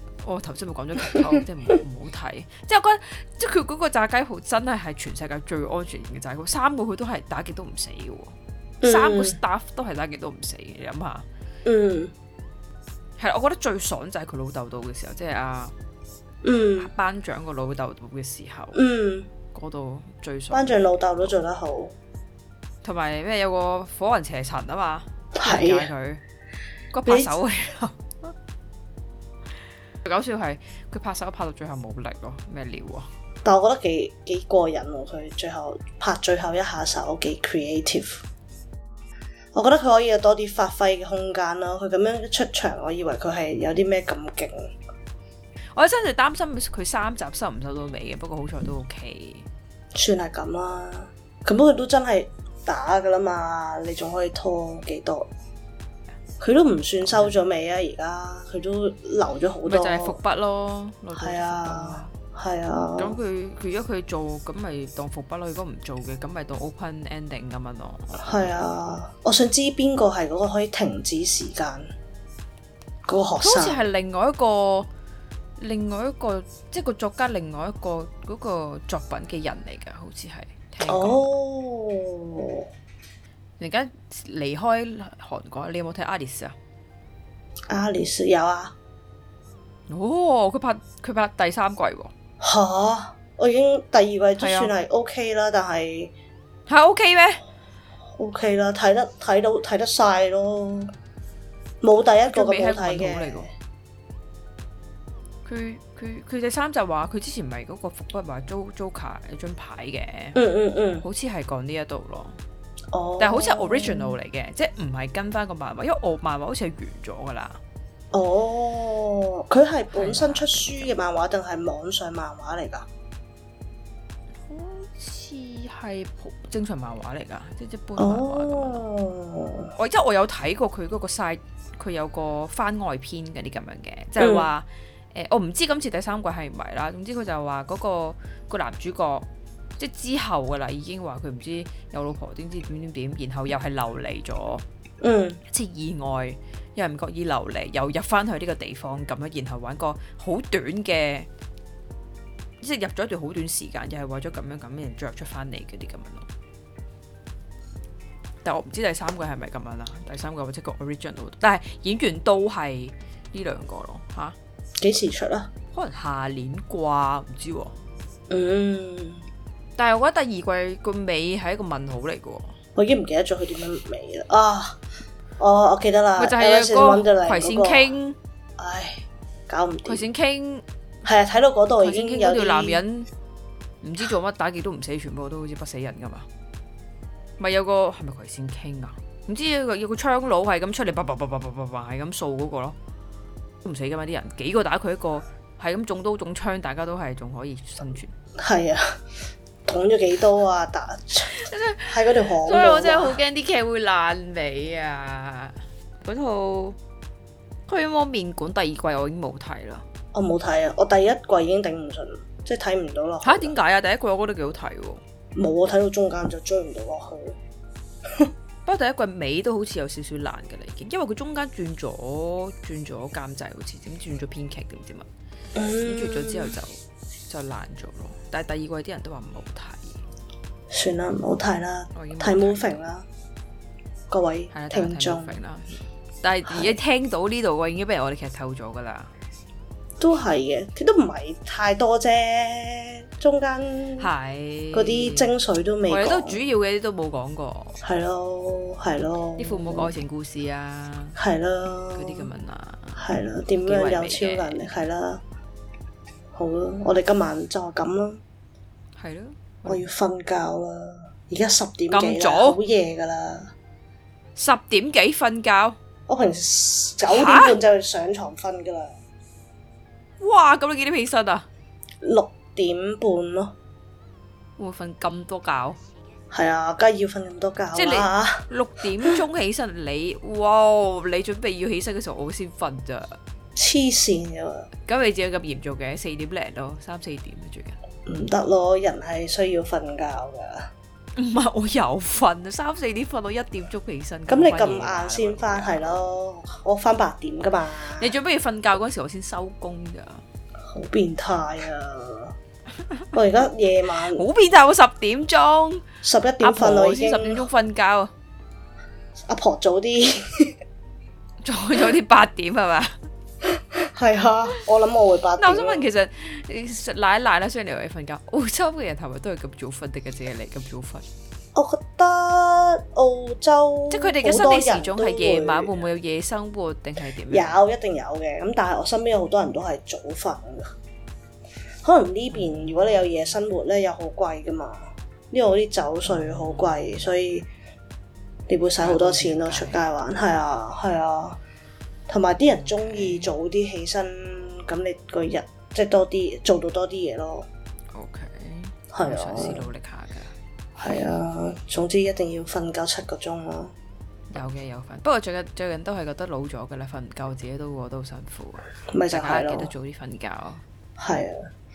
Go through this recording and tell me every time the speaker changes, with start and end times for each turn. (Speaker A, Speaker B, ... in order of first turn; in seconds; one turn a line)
Speaker A: 0.2-11.3
Speaker B: 8.8-9.4
Speaker B: 11.6-12.1
Speaker A: 13.2-15.7
Speaker B: 16.4-16.9
Speaker A: 16.8-18.8
Speaker B: 18.7-19.3
Speaker A: 19.5-21.3
Speaker B: 20.5-21.9
Speaker A: 22.8-26.2
Speaker B: 25.3-25.9
Speaker A: 26.9-28.3
Speaker B: 27.0-27.3
Speaker A: 30.0-33.1
Speaker B: 33.4-38.2
Speaker B: 39.5-44.7
Speaker A: 45.7-49.5
Speaker B: 49.9-55.3
Speaker B: 56.4-60.2
Speaker A: 59.6-62.1
Speaker B: 61.2-63.2
Speaker A: 63.0-68.6
Speaker B: 68.2-71.9
Speaker B: 73.0-73.8
Speaker A: 73.4-74.9
Speaker A: 75.6-81.3
Speaker B: 80.8-82.7
Speaker A: 83.6-86.5
Speaker B: 87.7-88.7
Speaker A: 89.9-92.1
Speaker B: 92.4-96.1
Speaker A: 94.4-94.7
Speaker A: 96.7-97.4
Speaker B: 98.2-100.9
Speaker B: 101.8-103.5
Speaker A: 102.3-103.5
Speaker A: 105.4-110.4
Speaker B: 110.3-111.0
Speaker A: 111.0-112.4
Speaker B: 112.9-114.1
Speaker A: 113.2-117.6
Speaker B: 118.1-122.9
Speaker A: 119.9-120.9
Speaker A: 124.5-128.8
Speaker B: 128.0-129.7
Speaker A: 129.8-144.6
Speaker B: 134.2-134.5
Speaker B: 145.0-145.4
Speaker A: 145.5-151.3
Speaker A: 152.6-156.3
Speaker A: 158.4-164.3
Speaker B: 164.8-165.5
Speaker A: 165.7-167.8
Speaker B: 168.3-169.2
Speaker A: 169.8-172.6
Speaker B: 172.8-174.8
Speaker B: 175.4-177.9
Speaker A: 176.2-178.2
Speaker B: 178.6-180.0
Speaker A: 179.8-180.6
Speaker B: 181.0-182.8
Speaker A: 181.8-183.1
Speaker A: 183.8-186.3
Speaker A: 187.4-192.8
Speaker A: 193.6-198.1
Speaker B: 198.4-199.0
Speaker B: 199.6-203.2
Speaker A: 201.3-206.8
Speaker A: 207.7-209.8
Speaker B: 210.1-213.5
Speaker A: 213.2-215.0
Speaker B: 215.3-217.4
Speaker A: 218.7-225.1
Speaker B: 225.5-226.6
Speaker A: 225.8-230.0
Speaker B: 230.7-233.1
Speaker A: 231.9-232.8
Speaker B: 234.1-235.4
Speaker A: 234.5-239.1
Speaker B: 236.5-236.7
Speaker B: 240.0-244.1
Speaker A: 244.0-245.3
Speaker B: 244.7-246.4
Speaker A: 245.9-247.8
Speaker B: 247.8-249.9
Speaker A: 249.4-251.2
Speaker B: 251.2-252.3
Speaker A: 251.9-253.0
Speaker B: 253.0-255.2
Speaker A: 253.6-254.6
Speaker B: 256.3-258.2
Speaker A: 258.9-259.8
Speaker B: 259.6-263.5
Speaker A: 261.9-262.6
Speaker A: 264.4-265.8
Speaker B: 266.1-268.9
Speaker A: 267.1-267.6
Speaker A: 270.2-271.5
Speaker B: 272.0-273.5
Speaker A: 274.6-275.8
Speaker B: 276.3-278.4
Speaker A: 277.7-283.2
Speaker B: 283.6-284.7
Speaker A: 284.9-287.8
Speaker B: 288.1-290.7
Speaker A: 291.1-296.1
Speaker B: 294.3-298.1
Speaker A: 298.0-300.2
Speaker B: 300.6-302.3
Speaker B: 303.1-304.2
Speaker A: 304.1-305.9
Speaker B: 306.0-307.4
Speaker A: 306.4-308.1
Speaker B: 309.2-310.6
Speaker A: 311.4-313.0
Speaker B: 313.6-315.8
Speaker A: 315.4-321.1
Speaker B: 321.5-325.7
Speaker A: 323.9-327.6
Speaker B: 327.3-330.7
Speaker B: 331.8-337.5
Speaker A: 336.2-336.7
Speaker B: 338.5-341.4
Speaker A: 338.8-339.8
Speaker B: 342.1-347.5
Speaker A: 342.5-343.3
Speaker A: 347.9-350.3
Speaker B: 348.9-349.7
Speaker B: 350.8-353.7
Speaker A: 354.3-360.6
Speaker B: 358.9-359.7
Speaker B: 361.0-361.5